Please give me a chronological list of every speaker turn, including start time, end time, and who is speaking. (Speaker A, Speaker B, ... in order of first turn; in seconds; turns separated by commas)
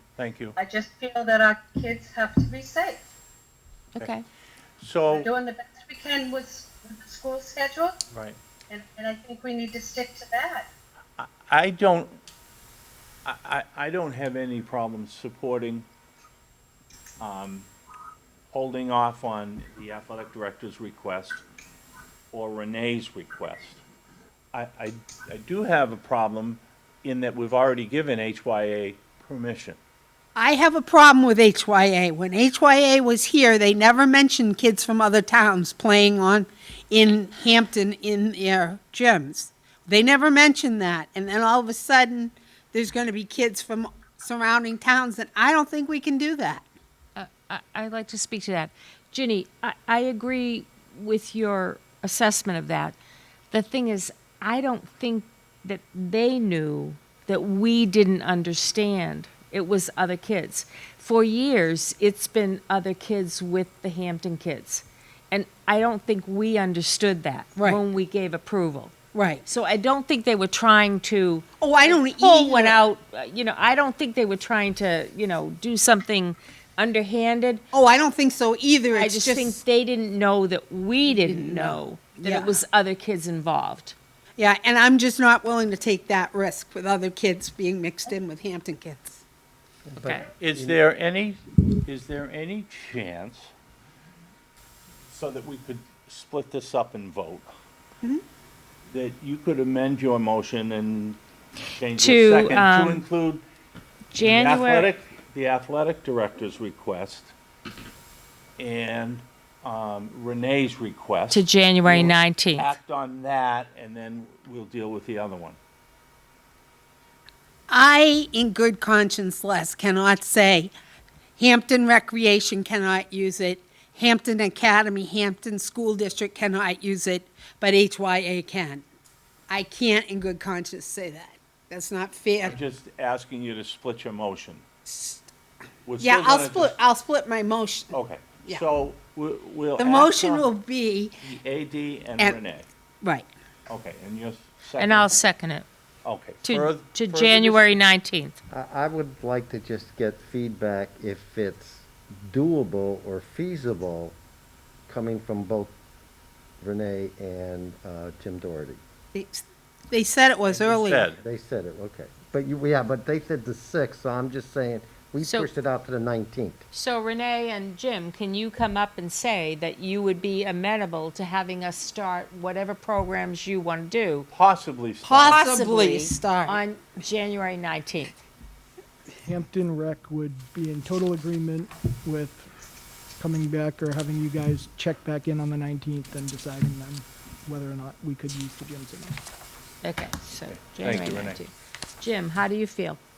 Speaker A: 0.2-0.6, Speaker B: 0.6-3.0, Speaker C: 3.9-4.2, Speaker A: 4.8-5.3, Speaker B: 5.1-8.0, Speaker A: 8.1-8.4, Speaker B: 8.7-10.7, Speaker A: 11.2-12.2, Speaker A: 13.2-15.8, Speaker A: 17.2-17.7, Speaker A: 18.5-21.4, Speaker A: 22.3-23.8, Speaker A: 24.5-29.8, Speaker D: 30.3-46.7, Speaker C: 47.1-53.0, Speaker C: 53.5-68.9, Speaker D: 67.5-67.8, Speaker D: 69.1-69.4, Speaker C: 69.5-77.6, Speaker D: 71.6-72.8, Speaker D: 77.7-79.6, Speaker C: 78.9-84.0, Speaker D: 81.1-82.6, Speaker D: 84.4-89.2, Speaker E: 89.8-90.8, Speaker C: 90.0-90.2, Speaker A: 90.4-93.5, Speaker A: 95.1-97.5, Speaker A: 98.9-101.2, Speaker A: 101.7-103.4, Speaker C: 101.9-103.0, Speaker C: 104.1-104.9, Speaker A: 104.2-107.3, Speaker A: 108.6-115.6, Speaker C: 111.3-112.7, Speaker D: 117.7-120.7, Speaker D: 121.4-128.8, Speaker D: 129.5-132.6, Speaker A: 132.4-134.6, Speaker D: 134.9-135.2, Speaker A: 135.8-136.7, Speaker D: 136.0-137.9, Speaker A: 137.9-140.5, Speaker D: 139.8-141.2, Speaker A: 141.2-142.7, Speaker D: 143.0-143.3, Speaker A: 143.7-145.1, Speaker C: 144.8-145.7, Speaker A: 146.0-147.7, Speaker C: 146.4-148.4, Speaker E: 148.5-154.2, Speaker E: 154.9-155.7, Speaker E: 156.6-158.8, Speaker D: 159.1-161.1, Speaker A: 160.5-161.2, Speaker E: 161.2-166.6, Speaker C: 165.2-165.5, Speaker C: 166.7-174.3, Speaker A: 174.3-175.4, Speaker D: 175.0-176.6, Speaker C: 175.2-178.2, Speaker F: 179.2-182.5, Speaker F: 183.2-189.2, Speaker C: 189.8-193.0, Speaker A: 190.5-191.4